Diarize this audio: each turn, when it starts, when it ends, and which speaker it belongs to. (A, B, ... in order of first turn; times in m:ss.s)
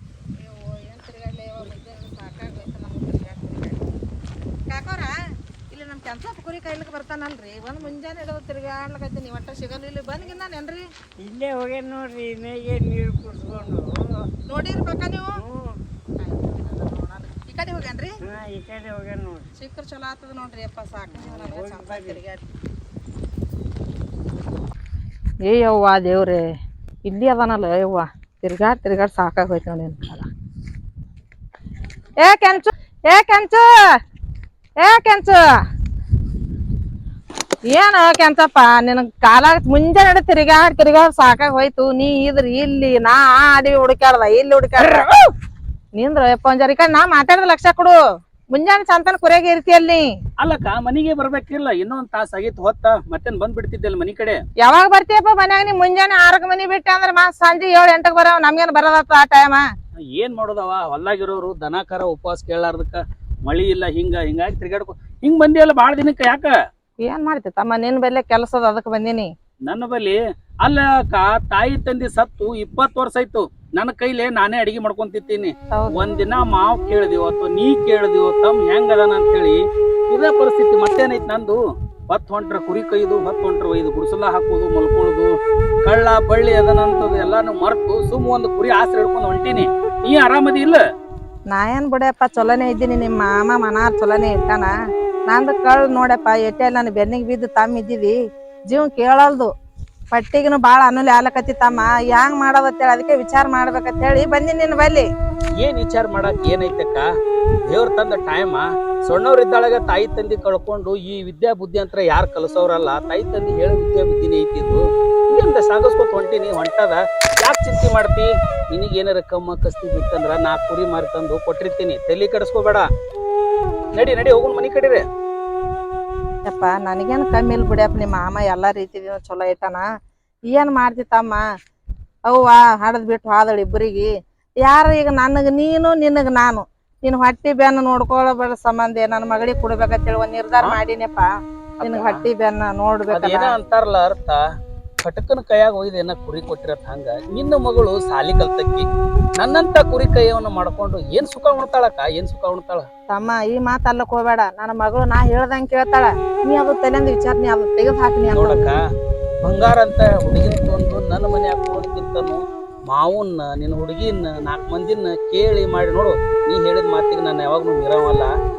0:00.4-0:03.8 A
0:04.7-0:05.1 A
0:05.7-0:10.9 A
0:11.2-0:14.2 B
0:14.5-0:15.4 A
0:15.4-0:15.8 B
0:16.2-0:18.2 A
0:18.2-0:19.5 B
0:19.6-0:22.4 A
0:21.2-0:22.2 B
0:25.5-0:26.4 A
0:27.0-0:30.3 A
0:32.2-0:33.7 A
0:34.8-0:35.4 A
0:37.7-0:45.3 A
0:46.0-0:48.0 A
0:48.5-0:50.1 A
0:50.4-0:54.4 C
0:54.6-0:59.7 A
1:00.0-1:06.5 C
1:07.0-1:09.3 A
1:09.7-1:21.6 C
1:15.7-1:16.0 A
1:22.1-1:30.8 C
1:31.5-1:34.7 A
1:35.3-1:38.2 A
1:38.7-1:39.5 A
1:40.1-1:45.1 A
1:45.6-1:47.0 C
1:47.7-2:02.9 C
2:04.0-2:05.0 C
2:06.5-2:09.8 A
2:10.5-2:11.4 A
2:12.3-2:14.1 A
2:14.6-2:21.3 A
2:21.8-2:22.2 C
2:21.8-2:23.5 A
2:23.1-2:24.4 C
2:25.0-2:28.9 C
2:29.4-2:32.9 C
2:33.1-2:38.7 A
2:38.3-2:38.8 C
2:39.4-2:48.3 C